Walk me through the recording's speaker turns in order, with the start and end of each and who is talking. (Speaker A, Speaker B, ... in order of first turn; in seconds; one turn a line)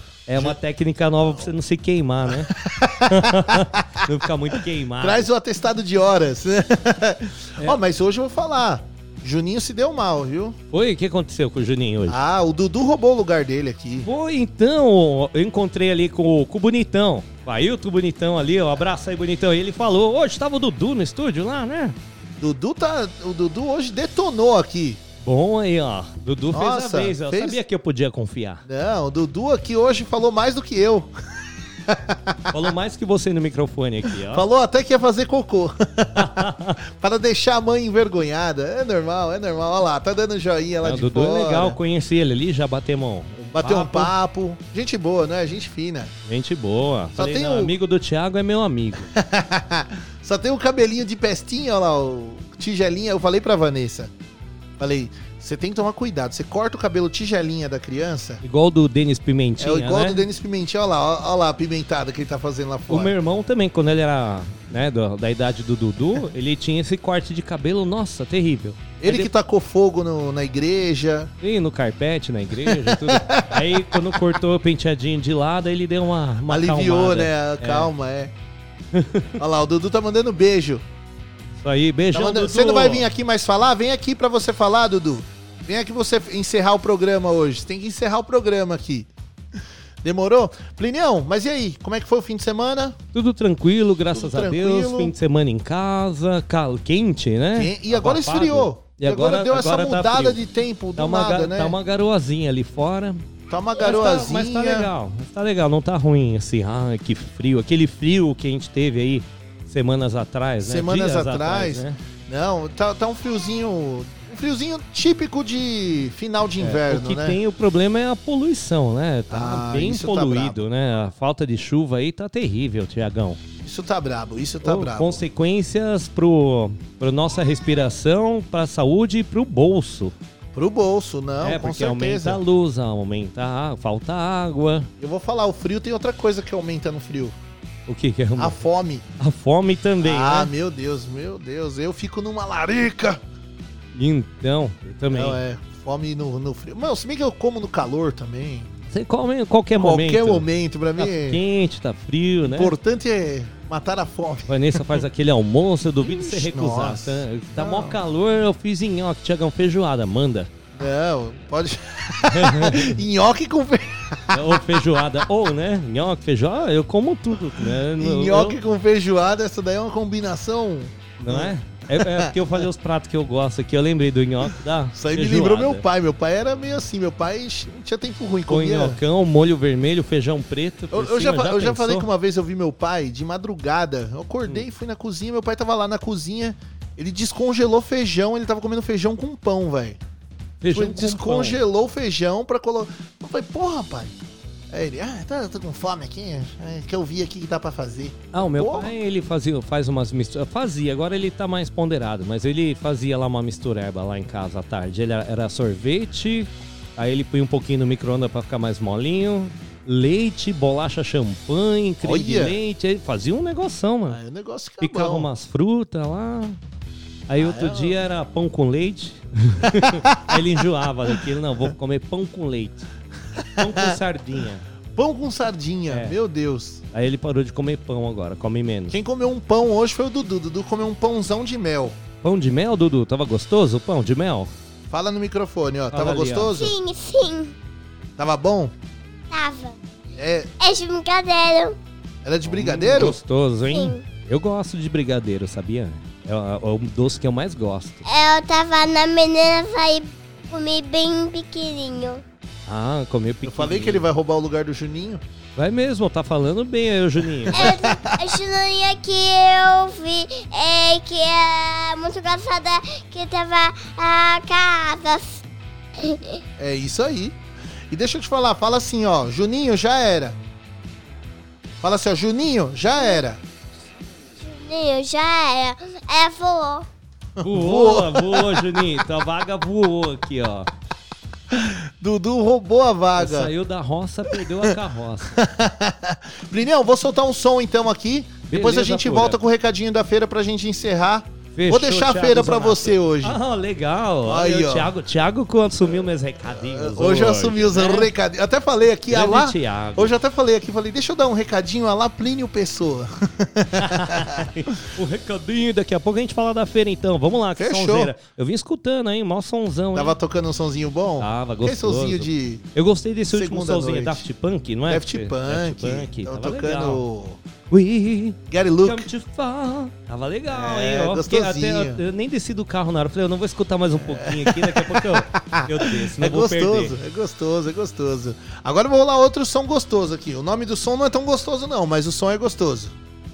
Speaker A: 0.3-2.5
Speaker B: 2.4-3.8
Speaker A: 3.1-5.2
Speaker B: 5.0-10.6
Speaker A: 10.7-12.2
Speaker B: 12.1-14.1
Speaker A: 14.0-22.0
Speaker B: 22.4-25.0
Speaker A: 25.2-28.6
Speaker B: 26.5-27.6
Speaker B: 28.7-31.1
Speaker B: 31.9-32.6
Speaker A: 32.5-34.4
Speaker B: 34.3-41.8
Speaker A: 36.2-36.7
Speaker A: 40.8-44.1
Speaker B: 43.5-46.1
Speaker A: 46.3-49.1
Speaker B: 47.2-47.7
Speaker B: 49.1-54.1
Speaker B: 54.8-58.4
Speaker A: 58.4-60.2
Speaker B: 59.6-63.1
Speaker A: 62.9-69.3
Speaker B: 69.0-71.3
Speaker A: 71.4-77.9
Speaker B: 72.6-74.1
Speaker B: 76.5-78.3
Speaker A: 79.0-79.4
Speaker B: 79.4-80.8
Speaker A: 81.6-83.0
Speaker B: 82.1-89.1
Speaker B: 90.0-93.0
Speaker A: 93.1-100.4
Speaker B: 94.1-95.2
Speaker B: 97.6-101.8
Speaker A: 101.0-103.2
Speaker B: 103.5-104.9
Speaker A: 103.8-112.0
Speaker B: 110.6-117.4
Speaker A: 116.6-123.4
Speaker B: 119.3-120.6
Speaker B: 123.6-125.2
Speaker A: 124.6-130.1
Speaker B: 130.5-132.4
Speaker A: 131.4-134.9
Speaker B: 135.0-137.4
Speaker A: 137.9-138.6
Speaker B: 138.4-139.1
Speaker A: 139.2-140.5
Speaker B: 140.0-143.2
Speaker A: 144.0-145.4
Speaker B: 145.1-148.7
Speaker A: 148.9-150.4
Speaker B: 149.8-151.4
Speaker A: 151.0-152.7
Speaker B: 152.5-154.8
Speaker A: 154.5-160.5
Speaker B: 156.0-158.0
Speaker B: 160.7-164.6
Speaker A: 162.3-162.9
Speaker A: 164.3-168.6
Speaker B: 168.0-172.3
Speaker A: 171.2-175.8
Speaker B: 174.9-179.0
Speaker A: 178.5-182.1
Speaker B: 180.9-190.0
Speaker A: 190.6-191.6
Speaker B: 190.7-194.2
Speaker B: 194.7-199.0
Speaker A: 198.3-214.2
Speaker B: 212.0-212.6
Speaker B: 214.1-215.3
Speaker A: 214.8-216.6
Speaker A: 217.3-222.9
Speaker B: 217.4-218.0
Speaker B: 219.8-220.4
Speaker A: 223.6-224.7
Speaker B: 223.6-224.0
Speaker B: 225.0-226.8
Speaker A: 225.9-226.2
Speaker A: 226.9-228.9
Speaker B: 228.9-232.0
Speaker A: 232.2-234.5
Speaker B: 234.9-236.7
Speaker A: 235.9-236.5
Speaker C: 236.5-237.6
Speaker B: 238.2-238.7
Speaker C: 239.3-239.8
Speaker B: 240.1-240.5
Speaker C: 240.6-241.8
Speaker B: 242.2-243.2
Speaker A: 242.4-248.0
Speaker C: 243.7-244.1
Speaker C: 248.1-252.2
Speaker A: 252.7-254.0
Speaker B: 253.4-255.2
Speaker A: 255.6-257.7
Speaker B: 257.5-258.1
Speaker C: 257.5-265.4
Speaker C: 266.0-266.4
Speaker B: 266.6-267.4
Speaker B: 267.9-270.4
Speaker B: 271.8-273.4
Speaker C: 273.0-273.2
Speaker C: 274.4-276.9
Speaker B: 277.4-278.8
Speaker A: 277.4-280.7
Speaker B: 281.5-283.5
Speaker A: 283.2-285.4
Speaker B: 285.3-293.4
Speaker A: 288.5-289.4
Speaker A: 291.6-298.1
Speaker B: 294.3-294.9
Speaker B: 296.6-304.5
Speaker A: 299.1-300.1
Speaker A: 303.8-310.1
Speaker B: 307.6-308.1
Speaker B: 309.9-312.6
Speaker A: 311.2-317.0
Speaker B: 313.3-314.2
Speaker B: 314.9-317.4
Speaker A: 317.7-326.9
Speaker B: 318.5-319.1
Speaker B: 320.5-322.0
Speaker B: 324.0-332.9